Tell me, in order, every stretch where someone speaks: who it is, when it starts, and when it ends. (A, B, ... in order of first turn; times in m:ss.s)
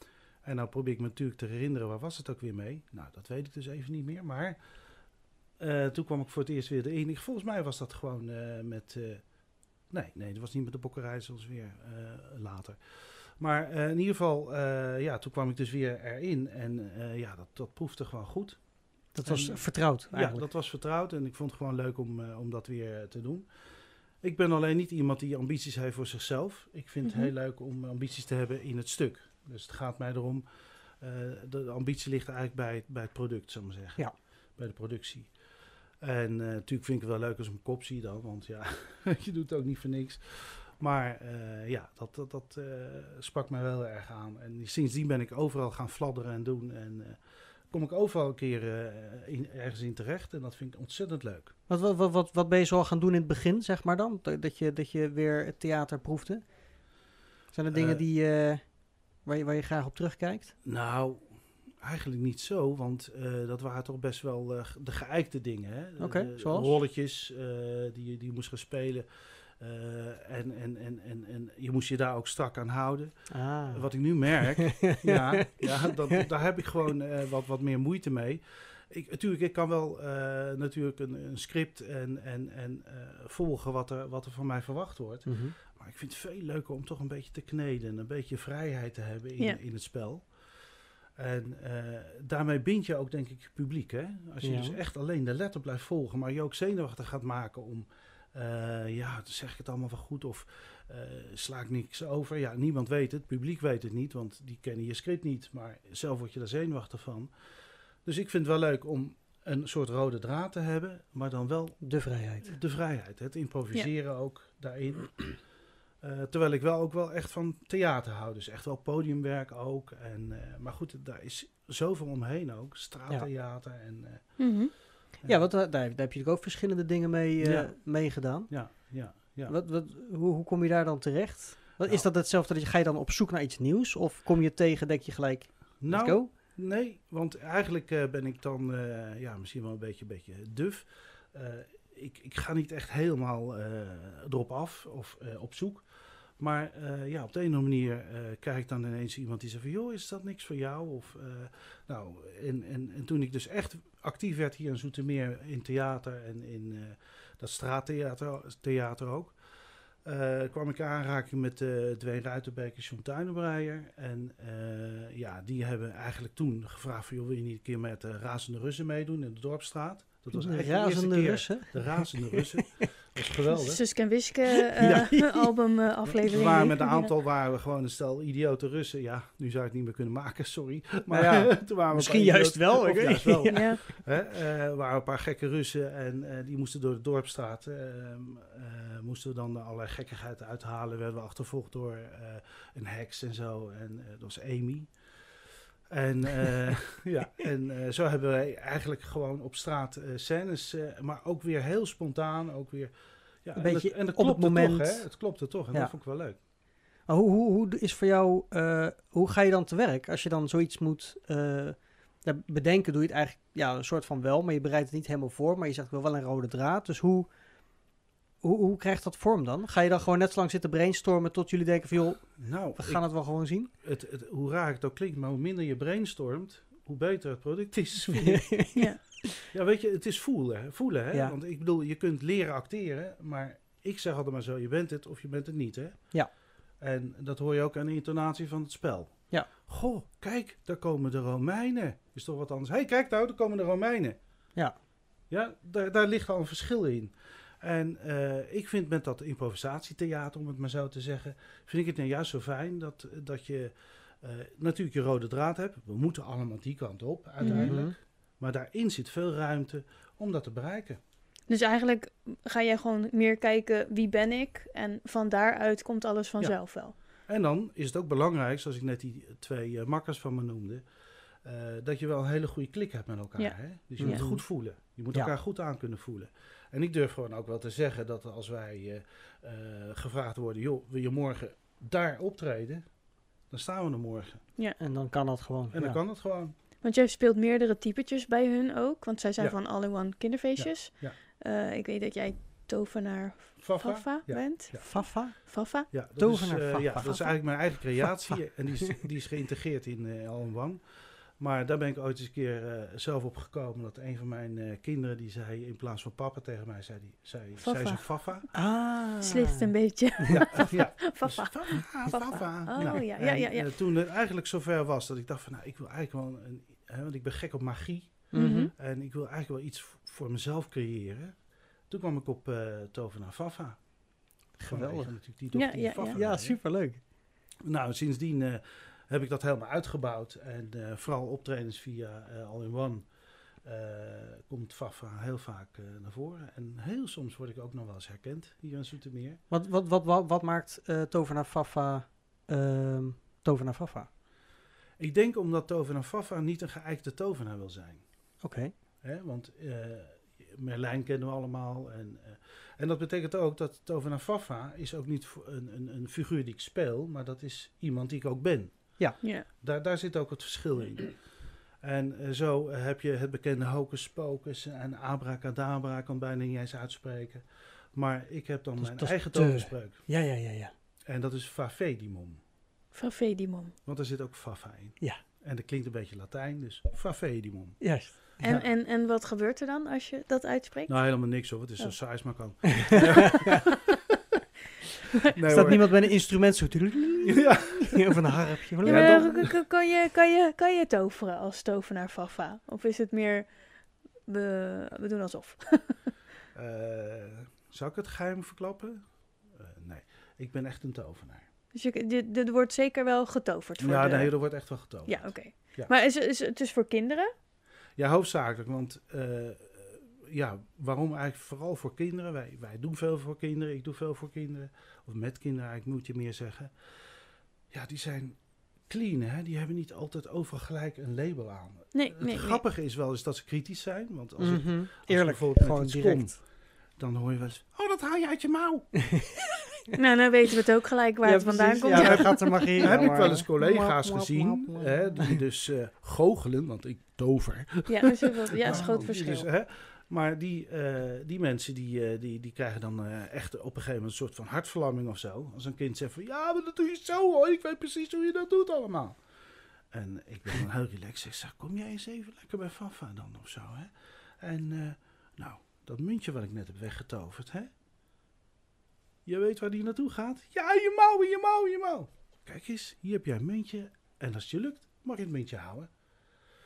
0:00.4-0:51.5 A
0:19.1-0:20.4 B
0:27.0-0:27.3 C
0:51.7-0:57.0 B
0:57.5-1:00.6 B
0:57.7-0:58.0 A
1:00.6-2:04.6 A
1:06.0-1:06.7 B
1:13.3-1:14.2 B
1:14.8-1:15.8 B
1:25.2-1:25.6 B
1:34.4-1:34.8 B
1:51.8-1:52.6 B
2:04.4-2:04.8 C
2:05.2-2:05.5 A
2:05.2-2:16.3 B
2:07.4-2:09.6 A
2:11.8-2:12.1 A
2:15.8-2:54.1 A
2:50.3-2:52.8 B
2:53.5-2:57.1 C
2:54.8-2:55.5 B
2:54.8-2:55.4 A
2:56.1-3:26.4 A
3:01.1-3:04.0 B
3:03.5-3:03.8 C
3:23.6-3:26.5 B
3:27.1-3:37.9 B
3:38.4-3:43.7 B
3:42.4-3:48.6 A
3:48.1-3:49.1 B
3:49.5-4:04.5 A
4:05.3-4:21.0 A
4:17.4-4:17.7 C
4:17.4-4:18.0 B
4:21.5-4:27.0 C
4:26.4-4:44.4 A
4:33.4-4:34.3 C
4:34.0-4:35.3 B
4:44.8-4:46.0 B
4:45.7-4:46.6 A
4:46.8-4:55.9 C
4:50.6-4:51.2 A
4:53.6-5:08.5 A
4:54.8-4:58.4 B
4:57.0-4:57.6 C
5:07.6-5:08.7 C
5:08.5-5:09.7 B
5:09.2-5:13.8 C
5:10.4-5:26.6 A
5:18.3-5:18.7 B
5:18.3-5:18.7 C
5:24.6-5:25.2 B
5:25.5-5:26.2 C
5:26.1-5:27.0 B
5:27.6-5:39.4 A
5:39.5-5:44.1 B
5:45.0-5:48.4 A
5:48.4-5:48.7 B
5:49.0-6:10.1 A
6:08.8-6:10.7 B
6:11.1-6:12.4 A
6:12.9-6:13.8 C
6:13.9-6:18.7 A
6:17.8-6:18.4 B
6:18.4-6:22.6 C
6:20.9-6:23.7 A
6:25.3-6:26.2 A
6:25.5-6:29.3 B
6:27.3-6:28.1 A
6:28.8-6:29.6 A
6:28.8-6:36.1 C
6:36.5-6:41.5 A
6:41.7-6:47.3 C
6:43.8-6:45.9 A
6:48.0-7:09.1 A
7:01.9-7:02.6 C
7:04.4-7:06.4 B
7:10.0-7:13.2 C
7:11.2-7:15.3 B
7:11.9-7:37.7 A
7:17.9-7:19.5 C
7:18.7-7:19.2 B
7:39.2-7:46.3 A